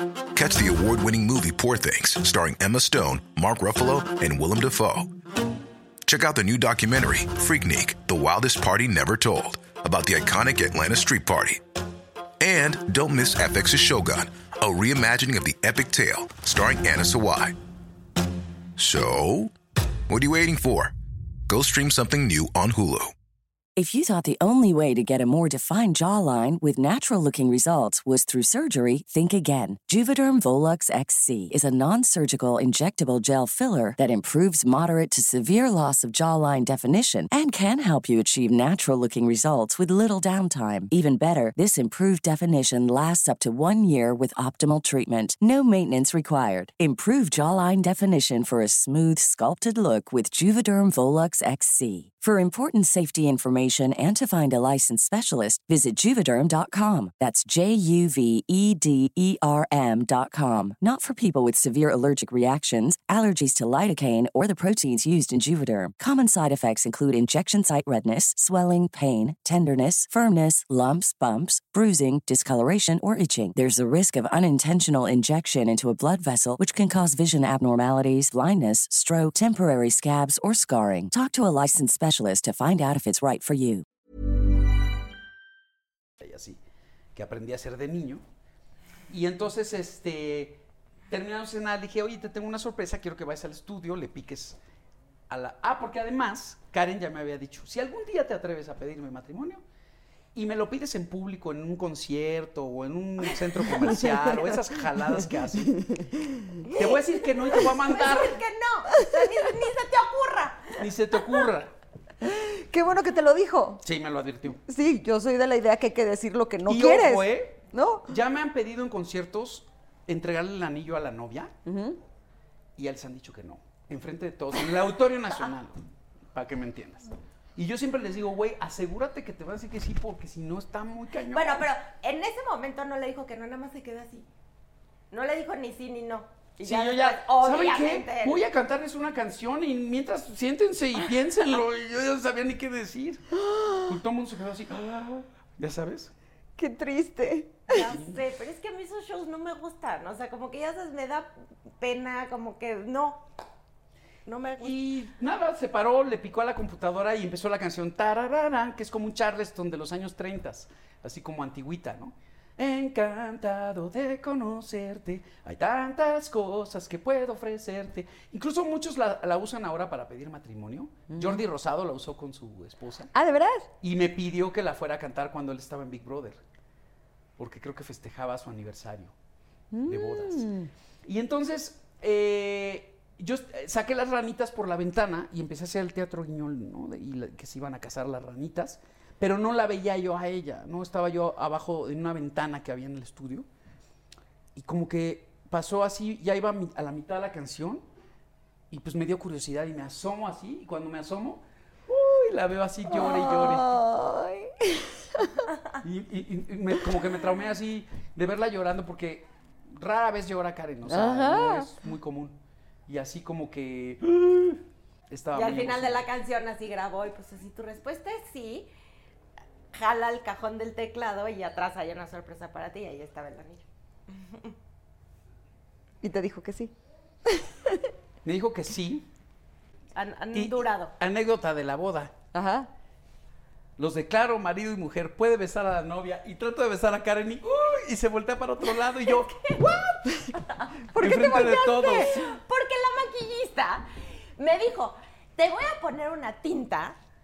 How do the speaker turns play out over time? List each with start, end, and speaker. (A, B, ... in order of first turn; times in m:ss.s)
0:00.3-0:05.1 A
0:06.0-0:11.6 A
0:12.4-0:17.6 A
0:18.8-0:19.6 A
0:20.1-0:20.9 A
0:21.5-0:23.1 A
0:23.8-1:23.8 B
1:26.2-1:26.6 C
1:27.2-1:28.2 C
1:29.1-1:34.6 C
1:35.3-1:39.6 C
1:40.4-1:45.8 C
1:43.8-1:44.5 D
1:45.7-1:46.7 D
1:46.7-1:50.8 E
1:46.7-1:48.4 C
1:49.0-1:49.3 D
1:50.8-1:51.7 C
1:52.2-1:53.8 D
1:53.8-1:54.6 C
1:54.6-1:58.2 D
1:56.7-2:01.5 C
2:01.6-2:02.0 D
2:02.8-2:05.8 C
2:06.3-2:11.7 C
2:11.3-2:14.3 E
2:15.1-2:18.4 E
2:16.6-2:26.1 C
2:23.5-2:23.8 D
2:26.6-2:27.8 D
2:27.7-2:33.3 E
2:27.8-2:28.2 C
2:34.3-2:34.8 E
2:34.6-2:53.1 C
2:51.1-2:51.4 D
2:53.1-2:53.7 D
2:53.8-2:56.4 C
2:57.4-2:59.1 C
2:59.7-3:00.7 D
2:59.8-3:13.5 C
3:14.6-3:17.8 C
3:18.7-3:23.8 C
3:22.9-3:25.5 D
3:25.8-3:36.1 C
3:30.9-3:31.7 D
3:35.3-3:38.7 E
3:39.7-3:44.6 E
3:46.0-3:46.7 D
3:47.2-3:47.9 D
3:48.2-3:49.1 C
3:50.0-3:50.9 E
3:50.3-3:52.1 C
3:52.3-3:52.7 D
3:53.8-3:59.6 C
3:58.8-4:07.0 E
4:00.9-4:02.0 D
4:01.0-4:02.2 C